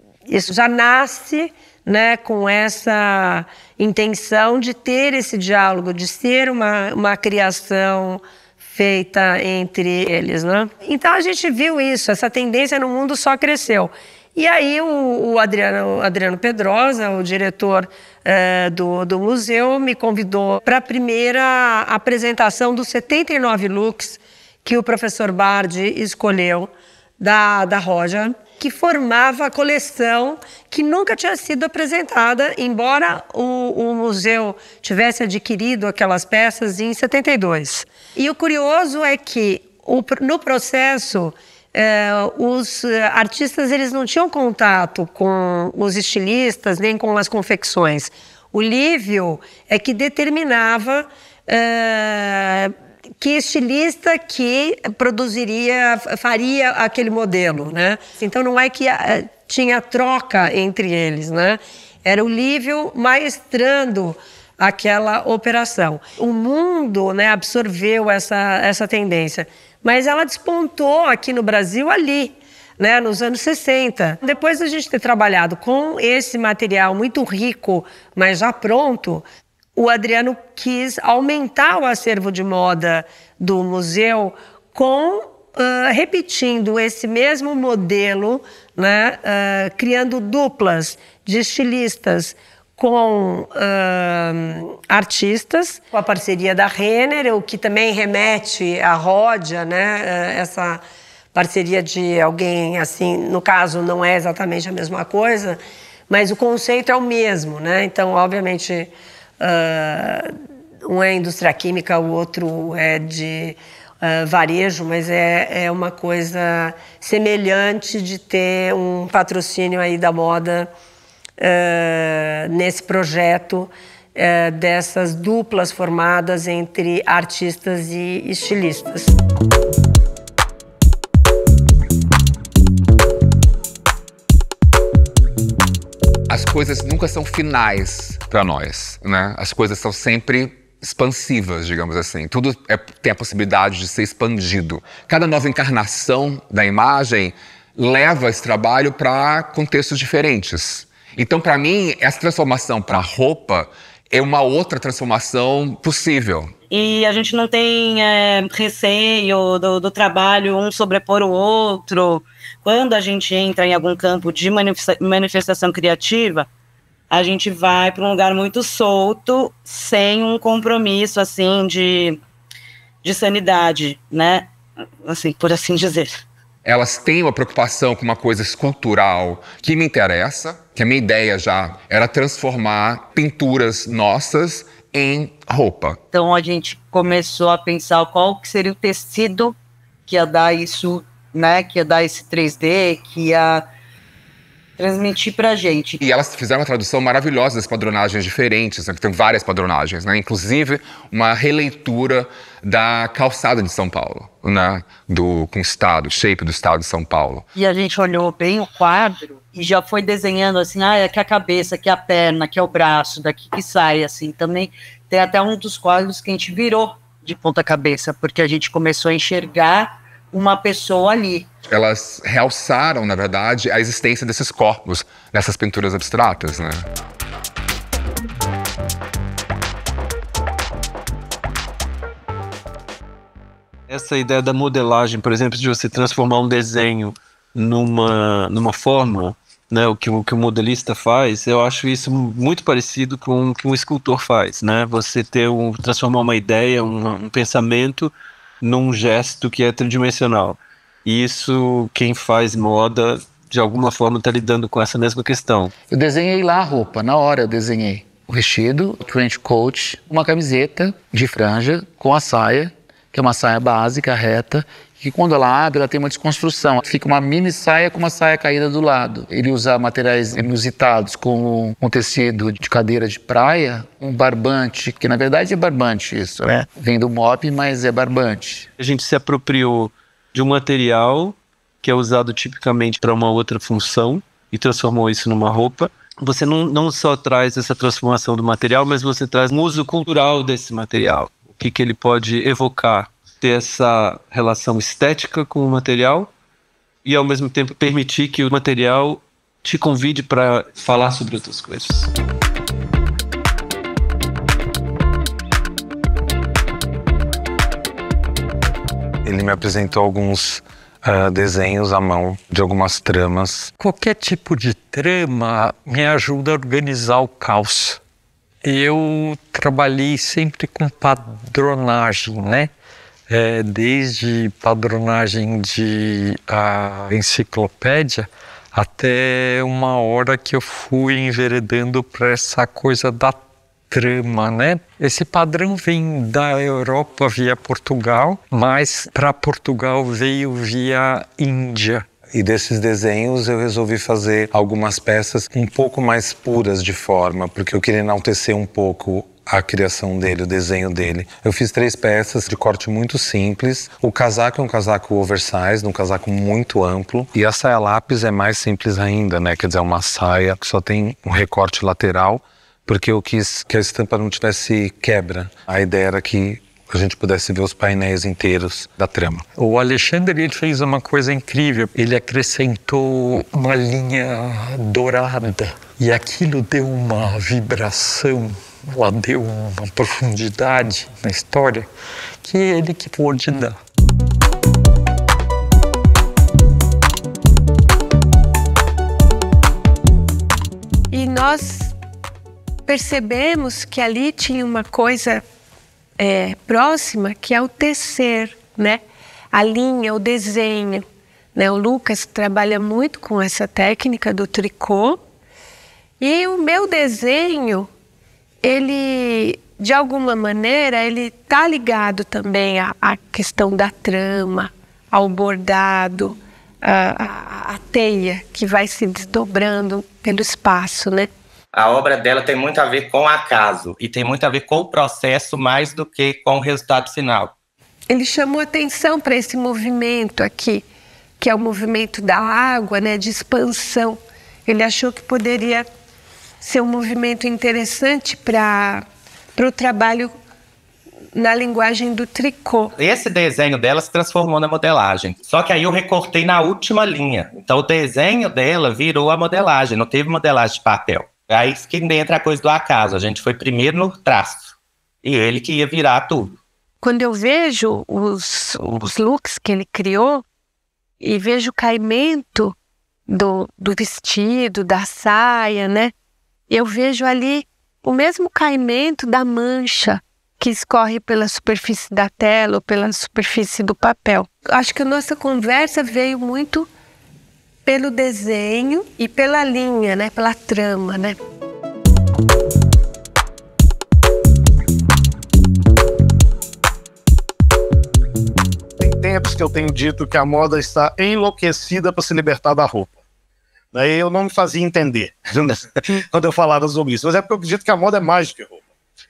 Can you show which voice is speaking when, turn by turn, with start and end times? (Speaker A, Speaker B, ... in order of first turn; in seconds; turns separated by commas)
Speaker A: 0.2-110.3, Speaker A: 110.8-120.7, Speaker A: 121.4-129.2, Speaker B: 136.3-156.5, Speaker C: 156.7-166.5, Speaker C: 167.1-172.2, Speaker C: 173.0-174.5, Speaker C: 175.0-176.2, Speaker B: 176.6-186.0, Speaker C: 186.1-189.6, Speaker C: 190.1-193.7, Speaker C: 194.8-196.0, Speaker B: 196.0-207.4, Speaker C: 207.5-221.5, Speaker B: 221.7-226.9, Speaker D: 233.9-255.7, Speaker E: 255.9-278.7, Speaker D: 278.8-296.3, Speaker D: 297.0-302.1, Speaker F: 309.2-310.6, Speaker F: 311.4-313.6, Speaker G: 313.8-318.0, Speaker G: 318.6-322.7, Speaker G: 323.3-333.4, Speaker G: 333.9-342.1, Speaker F: 342.3-369.4, Speaker G: 369.6-381.9, Speaker G: 382.4-383.8, Speaker H: 391.1-391.9, Speaker H: 392.9-395.4, Speaker H: 396.2-405.2, Speaker H: 406.2-407.9, Speaker H: 408.6-421.3, Speaker I: 421.7-427.5, Speaker H: 428.1-430.8, Speaker H: 431.4-435.9, Speaker H: 436.6-439.0, Speaker H: 439.6-440.3, Speaker H: 441.3-442.9, Speaker I: 442.9-454.7, Speaker I: 455.2-456.6, Speaker H: 457.0-460.4, Speaker H: 461.2-462.7, Speaker H: 463.3-466.1, Speaker H: 466.7-476.9, Speaker H: 477.9-481.4, Speaker J: 489.0-493.1, Speaker J: 493.9-498.8